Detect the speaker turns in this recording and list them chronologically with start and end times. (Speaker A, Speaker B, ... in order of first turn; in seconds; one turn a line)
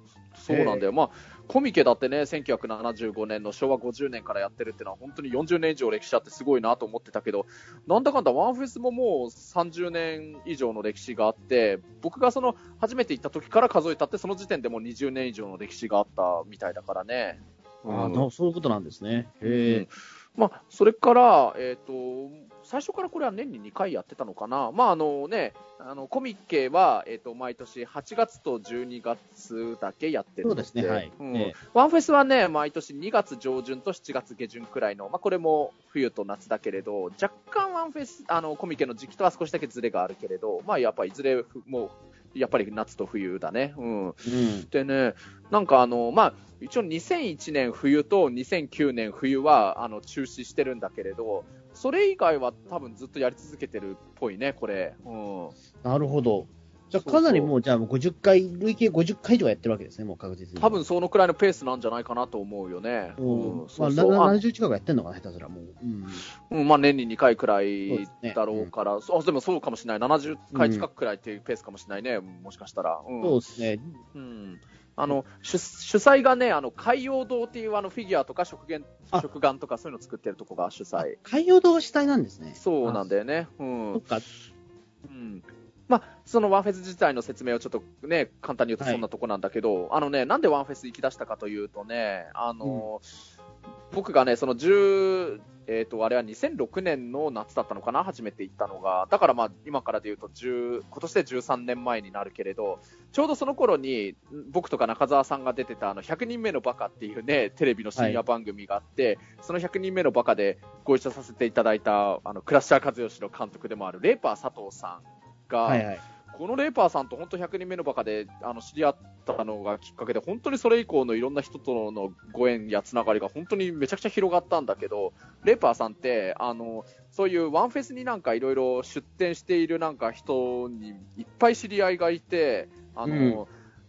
Speaker A: 0.3-18.3
Speaker B: 0.5-0.9
Speaker B: 17.9-19.9
Speaker A: 19.4-55.5
Speaker B: 30.4-31.5
Speaker B: 44.2-44.7
Speaker B: 55.8-60.8
Speaker A: 57.0-57.5
Speaker A: 60.6-64.4
Speaker B: 63.2-66.2
Speaker A: 66.4-73.4
Speaker B: 67.9-68.7
Speaker B: 70.5-70.8
Speaker B: 73.2-74.0
Speaker A: 74.1-81.2
Speaker B: 81.0-83.1
Speaker A: 82.5-84.3
Speaker B: 83.9-84.2
Speaker A: 85.0-93.2
Speaker B: 88.8-89.0
Speaker B: 92.6-92.9
Speaker A: 93.9-133.5
Speaker B: 108.0-108.2
Speaker B: 115.6-116.0
Speaker B: 133.0-133.4